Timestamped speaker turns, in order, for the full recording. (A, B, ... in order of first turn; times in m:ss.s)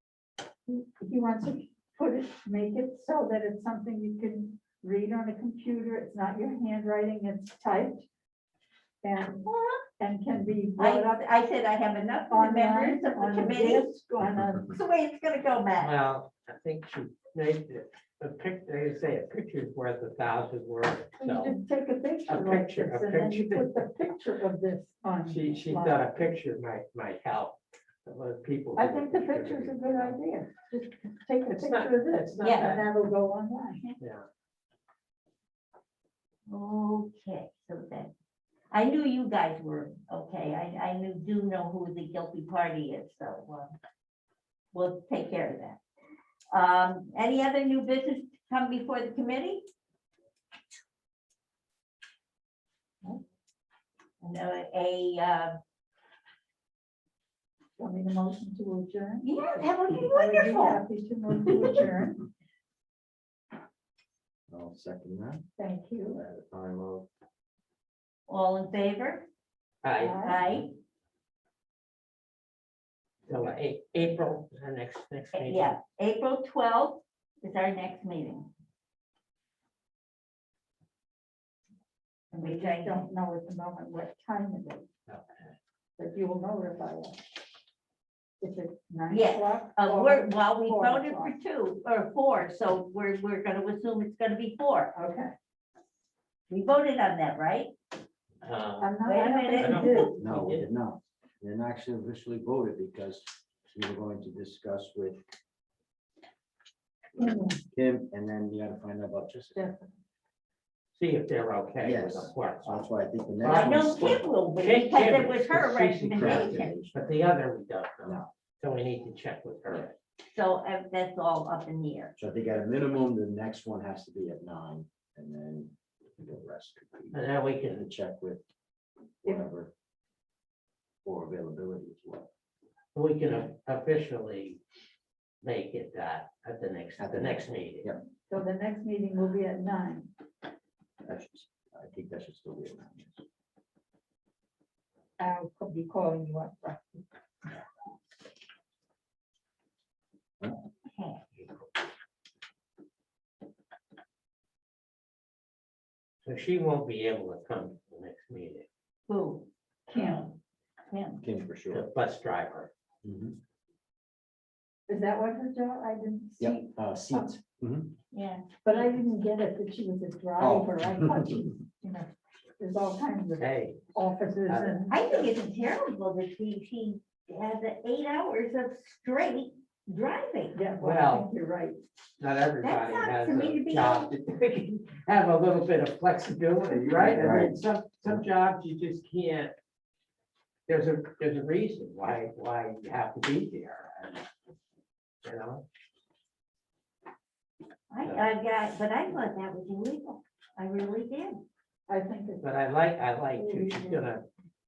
0:00.7-0:08.1 A
0:09.0-0:11.2 A
0:09.5-0:09.8 B
0:10.8-0:13.9 B
0:12.3-0:14.8 A
0:14.7-0:15.9 B
0:15.8-0:21.6 C
0:21.2-0:26.3 A
0:22.3-0:23.9 C
0:25.3-0:30.2 C
0:28.8-0:33.9 A
0:31.5-0:32.9 C
0:32.4-0:32.8 B
0:34.0-0:34.3 C
0:36.5-0:38.1 B
0:38.7-0:43.8 B
0:44.7-0:45.8 B
0:46.5-0:49.6 B
0:54.2-0:55.6 B
0:57.8-1:02.2 A
0:59.2-1:00.8 B
1:04.5-1:05.5 D
1:05.6-1:06.2 A
1:06.1-1:07.1 D
1:08.3-1:09.3 B
1:09.8-1:10.1 C
1:10.0-1:10.4 A
1:10.0-1:10.7 B
1:13.3-1:15.8 C
1:15.3-1:18.5 B
1:22.3-1:24.9 A
1:22.4-1:23.1 B
1:26.0-1:27.2 A
1:28.4-1:31.4 A
1:29.1-1:34.9 B
1:35.0-1:35.3 A
1:36.5-1:37.7 B
1:38.4-1:38.9 C
1:38.8-1:40.1 A
1:39.0-1:40.1 B
1:39.6-1:40.7 C
1:40.2-1:45.2 D
1:47.2-1:49.7 D
1:47.2-1:47.6 A
1:49.6-1:49.9 A
1:51.0-1:52.9 C
1:51.8-1:54.3 D
1:53.4-1:56.8 B
1:54.6-2:00.0 C
1:56.2-1:57.2 D
1:58.0-1:58.3 D
2:00.2-2:02.1 B
2:02.2-2:08.4 D
2:07.1-2:07.8 C
2:09.2-2:09.7 D
2:11.0-2:12.3 D
2:13.0-2:14.6 C
2:15.4-2:17.9 C
2:17.0-2:18.0 D
2:18.3-2:20.1 A
2:21.0-2:23.2 D
2:25.2-2:27.0 A
2:30.9-2:31.2 B
2:36.2-2:38.7 C
2:39.1-2:40.2 B
2:39.9-2:40.3 A
2:40.9-2:41.2 B
2:41.2-2:41.9 D
2:41.7-2:42.7 C
2:43.0-2:43.4 D
2:44.9-2:47.3 A
2:46.4-2:47.9 D
2:48.1-2:48.9 B
2:48.6-2:55.3 A
2:50.4-2:51.5 D
2:53.4-2:53.8 C
2:54.9-3:00.7 B
3:00.5-3:01.8 A
3:00.8-3:01.3 C
3:02.2-3:09.5 C
3:02.6-3:04.1 B
3:06.6-3:08.2 D
3:10.7-3:14.2 C
3:15.2-3:15.6 C
3:17.9-3:21.4 B
3:21.9-3:22.5 A
3:22.4-3:24.2 C
3:23.4-3:24.0 A